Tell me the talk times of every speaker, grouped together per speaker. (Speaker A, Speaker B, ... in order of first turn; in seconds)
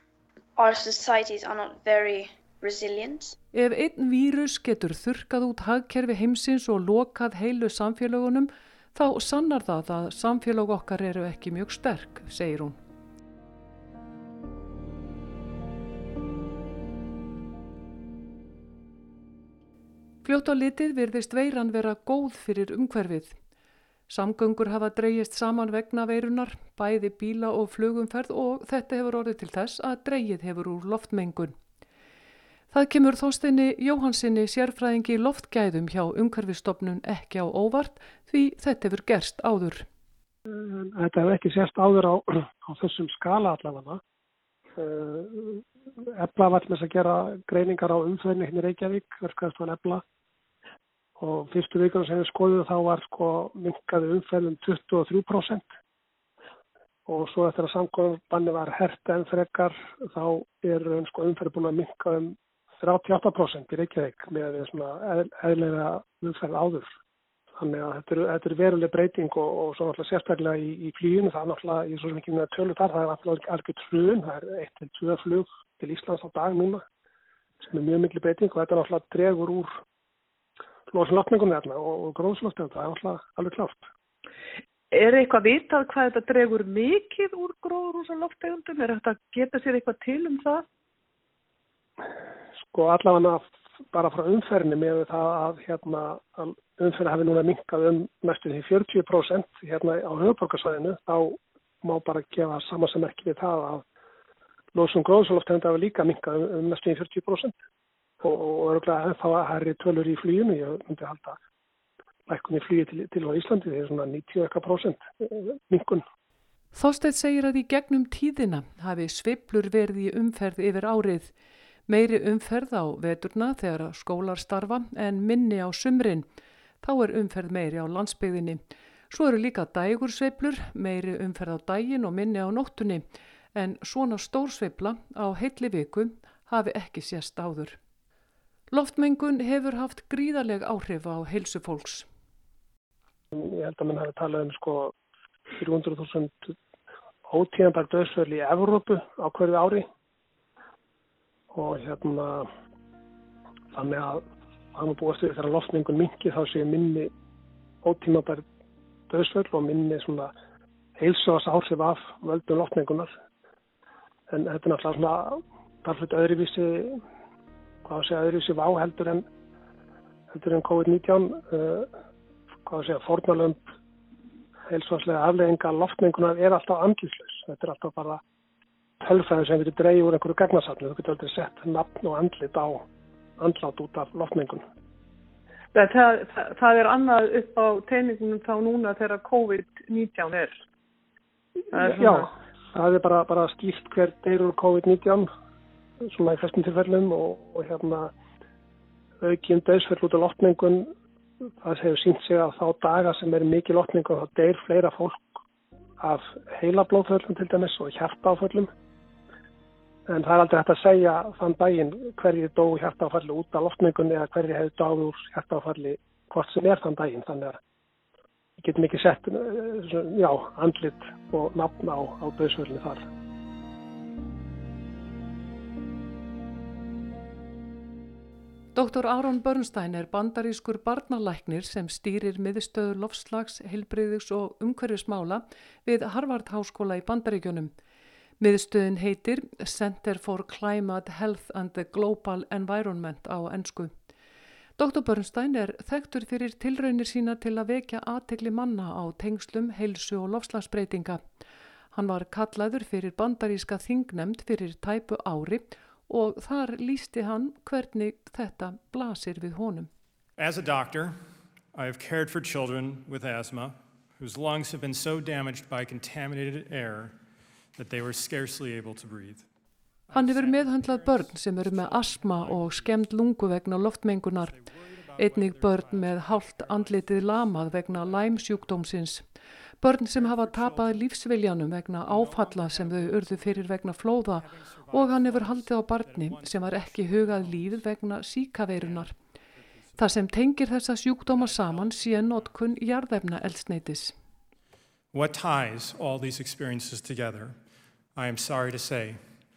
Speaker A: 0.6-3.4
Speaker B: 3.5-12.8, 20.2-23.4, 24.1-31.6, 32.7-39.9, 116.7-121.3, 121.9-126.2, 126.8-137.8, 138.7-142.1, 228.7-237.7, 238.4-243.9, 244.8-251.2, 251.9-259.9, 270.1-274.6, 275.1-279.3, 279.8-289.1, 290.0-294.1
Speaker C: 40.5-44.0, 44.8-45.6, 46.1-50.0, 51.2-55.7, 57.0-66.9, 67.5-76.8, 77.6-79.8, 80.9-83.9, 92.6-103.8, 104.7-107.6, 108.2-111.4, 112.3-116.0, 143.3-144.9, 145.6-146.6, 147.3-149.9, 151.5-152.5, 153.7-154.2, 154.7-157.1, 157.8-158.4, 159.1-160.3, 161.0-163.1, 164.3-167.0, 167.8-169.3, 170.3-171.9, 172.7-173.7, 174.7-178.2, 179.0-182.8, 183.4-184.6, 191.7-195.3, 196.1-198.1, 199.2-200.9, 201.6-205.4, 206.0-208.7, 210.1-217.6, 218.6-223.1
Speaker D: 84.9-90.6, 185.7-190.6, 191.7-192.3
Speaker E: 260.4-261.2, 261.7-267.2, 267.7-269.5, 270.1-273.1, 274.4-278.9, 280.1-288.1, 288.7-290.3, 291.2-292.7, 295.1-297.6, 298.1-299.3